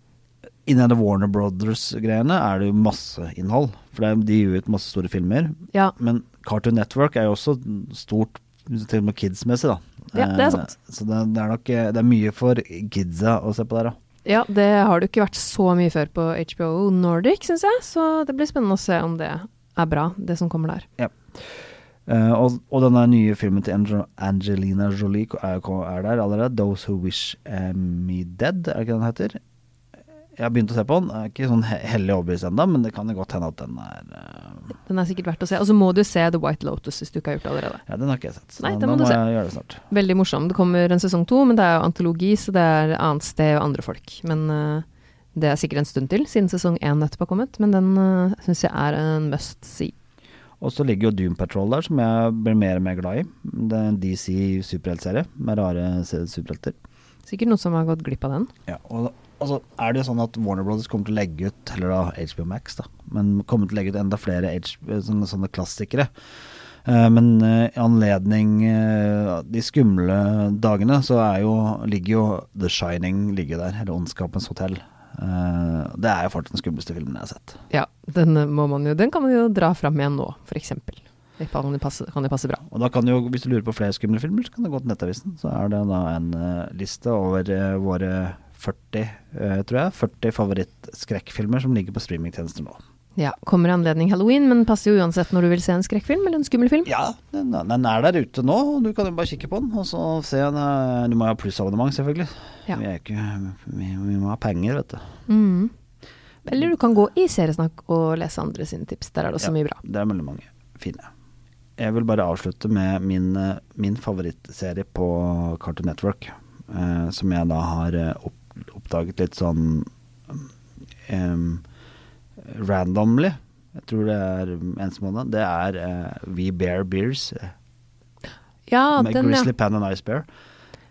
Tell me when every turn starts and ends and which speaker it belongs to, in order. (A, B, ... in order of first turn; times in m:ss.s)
0:00.7-0:14.0 A
0:10.1-0:10.7 B
0:14.2-0:20.9 B
0:22.1-0:29.4 A
0:30.4-0:34.7 A
0:34.9-0:37.8 B
0:37.9-0:39.8 A
0:38.6-0:39.2 B
0:39.9-0:49.9 B
0:50.6-0:56.8 A
0:57.3-0:58.5 B
0:58.7-1:06.1 A
1:06.8-1:17.6 A
1:17.7-1:22.6 B
1:22.6-1:32.8 A
1:33.2-1:36.9 B
1:36.9-1:45.1 A
1:45.3-1:45.7 B
1:46.4-1:49.8 B
1:49.4-1:51.1 A
1:51.8-2:00.4 A
2:01.1-2:01.6 A
2:02.4-2:07.5 A
2:08.7-2:09.5 B
2:08.9-2:10.3 A